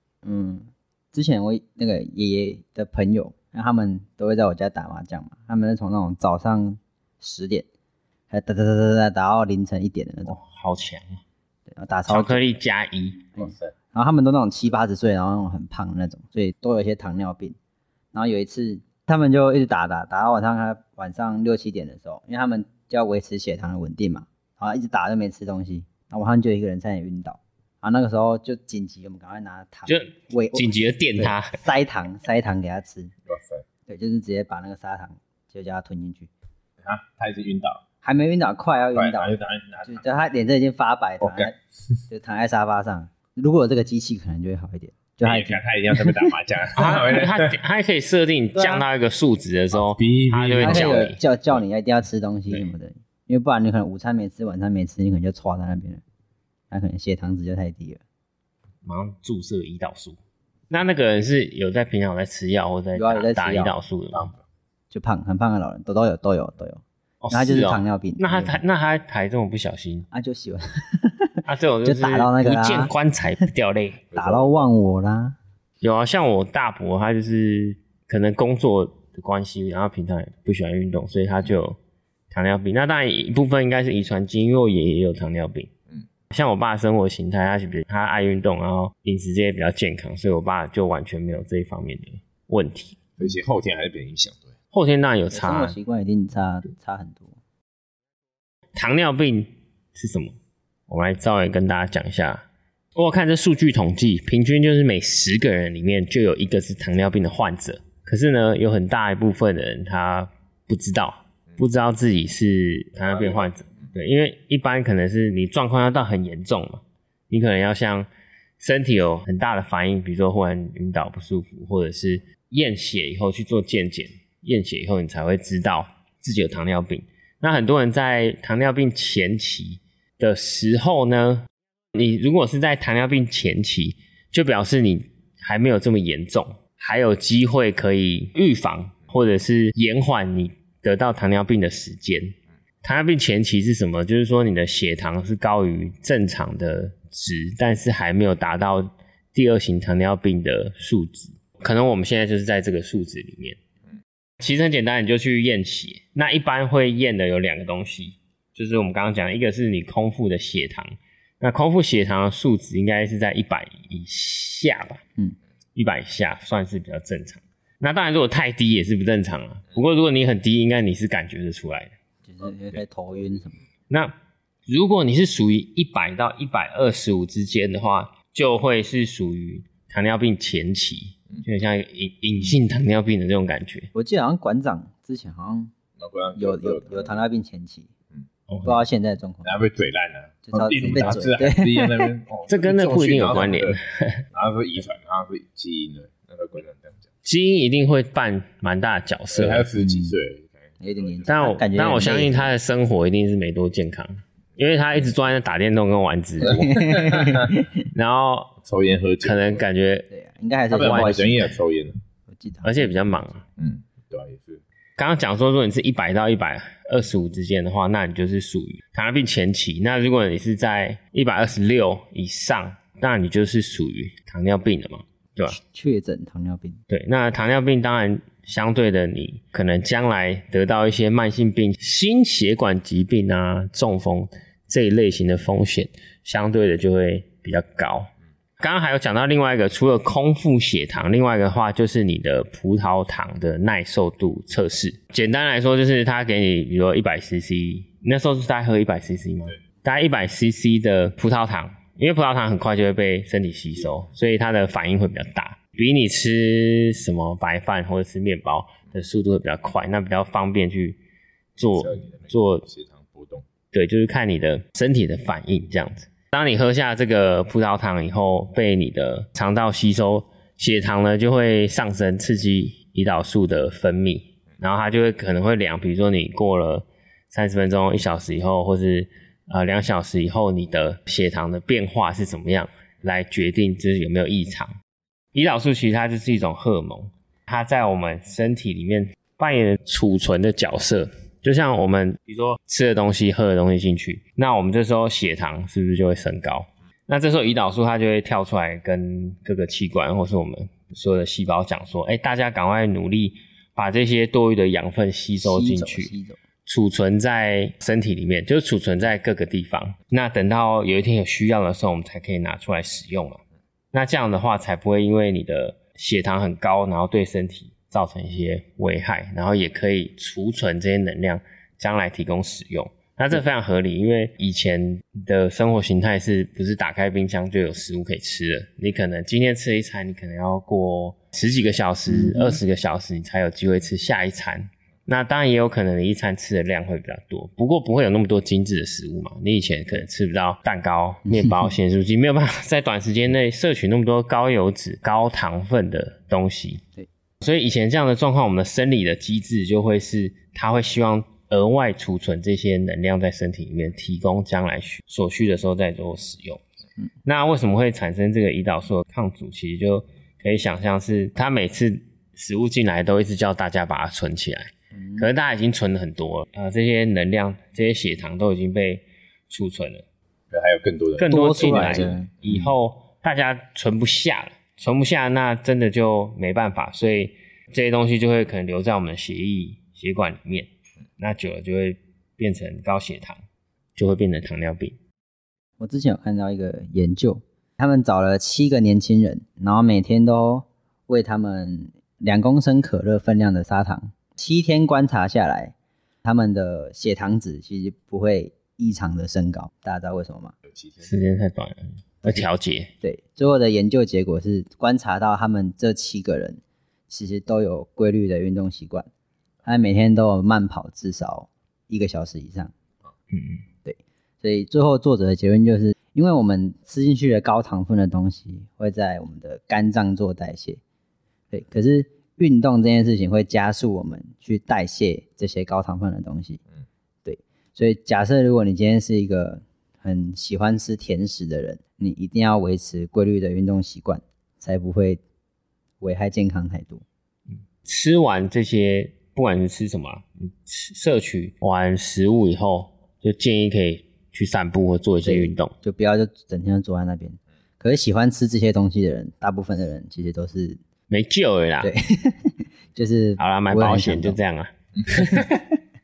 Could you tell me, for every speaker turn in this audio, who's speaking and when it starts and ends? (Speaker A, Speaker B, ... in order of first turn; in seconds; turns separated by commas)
Speaker A: 0.2-7.7, Speaker A: 8.3-10.4, Speaker B: 10.2-11.2, Speaker A: 11.7-12.4, Speaker B: 12.1-13.3, Speaker A: 13.3-17.6, Speaker C: 13.4-13.7, Speaker A: 18.1-33.1, Speaker B: 29.9-31.6, Speaker C: 33.3-33.6, Speaker A: 33.9-36.3, Speaker C: 36.8-37.8, Speaker A: 38.0-41.5, Speaker C: 38.9-40.2, Speaker C: 41.2-41.5, Speaker A: 42.1-46.3, Speaker C: 45.2-47.6, Speaker B: 46.8-51.2, Speaker A: 48.5-48.8, Speaker C: 49.7-51.1, Speaker A: 50.6-56.0, Speaker A: 56.7-58.0, Speaker B: 58.8-60.2, Speaker B: 60.7-64.3, Speaker A: 62.9-63.7, Speaker A: 64.9-68.6, Speaker B: 67.2-70.1, Speaker A: 70.1-72.9, Speaker B: 71.4-74.0, Speaker C: 74.1-74.7, Speaker A: 74.1-75.3, Speaker B: 75.8-81.8, Speaker B: 82.3-85.7, Speaker B: 86.3-93.0, Speaker C: 93.2-94.5, Speaker B: 94.7-95.8, Speaker A: 95.3-97.4, Speaker B: 98.7-100.3, Speaker B: 100.9-102.4, Speaker B: 103.0-118.1, Speaker C: 113.1-113.5, Speaker B: 118.6-153.6, Speaker B: 154.4-165.0, Speaker B: 165.8-171.9, Speaker A: 172.2-173.6, Speaker B: 174.7-183.9, Speaker A: 183.9-185.7, Speaker C: 186.0-187.2, Speaker A: 186.3-187.9, Speaker B: 188.5-188.8, Speaker A: 188.6-189.6, Speaker C: 189.4-193.8, Speaker A: 190.5-192.1, Speaker B: 192.5-194.2, Speaker C: 194.3-197.1, Speaker B: 197.2-199.7, Speaker C: 199.3-201.2, Speaker A: 199.8-200.2, Speaker A: 200.8-202.5, Speaker B: 201.2-207.1, Speaker A: 206.4-207.8, Speaker C: 206.6-207.5, Speaker B: 207.8-208.6, Speaker C: 208.6-209.6, Speaker B: 209.2-210.1, Speaker A: 210.1-211.5, Speaker C: 210.7-212.0, Speaker B: 210.8-211.1, Speaker A: 212.3-212.9, Speaker B: 212.6-213.4, Speaker C: 213.6-214.6, Speaker B: 215.0-225.6, Speaker A: 225.5-226.8, Speaker B: 226.9-261.0, Speaker B: 261.6-262.6, Speaker C: 261.7-263.4, Speaker B: 263.7-284.7, Speaker B: 285.3-306.1, Speaker A: 305.4-306.4, Speaker B: 306.6-313.4, Speaker B: 313.9-346.8, Speaker A: 332.1-332.6, Speaker A: 341.3-341.6, Speaker B: 347.4-356.6, Speaker B: 357.2-370.0, Speaker A: 364.9-365.3, Speaker C: 370.5-372.6, Speaker B: 371.2-383.4, Speaker A: 371.2-372.6, Speaker B: 383.9-384.9, Speaker A: 385.8-400.5, Speaker C: 400.7-401.1, Speaker B: 401.0-402.9, Speaker A: 403.0-409.1, Speaker A: 409.6-412.7, Speaker B: 413.3-413.6, Speaker A: 413.8-420.8, Speaker A: 421.5-426.6, Speaker A: 427.2-435.2, Speaker A: 436.0-437.0, Speaker B: 437.5-445.7, Speaker A: 445.2-450.8, Speaker B: 451.1-451.9, Speaker A: 451.8-454.4, Speaker B: 453.4-455.6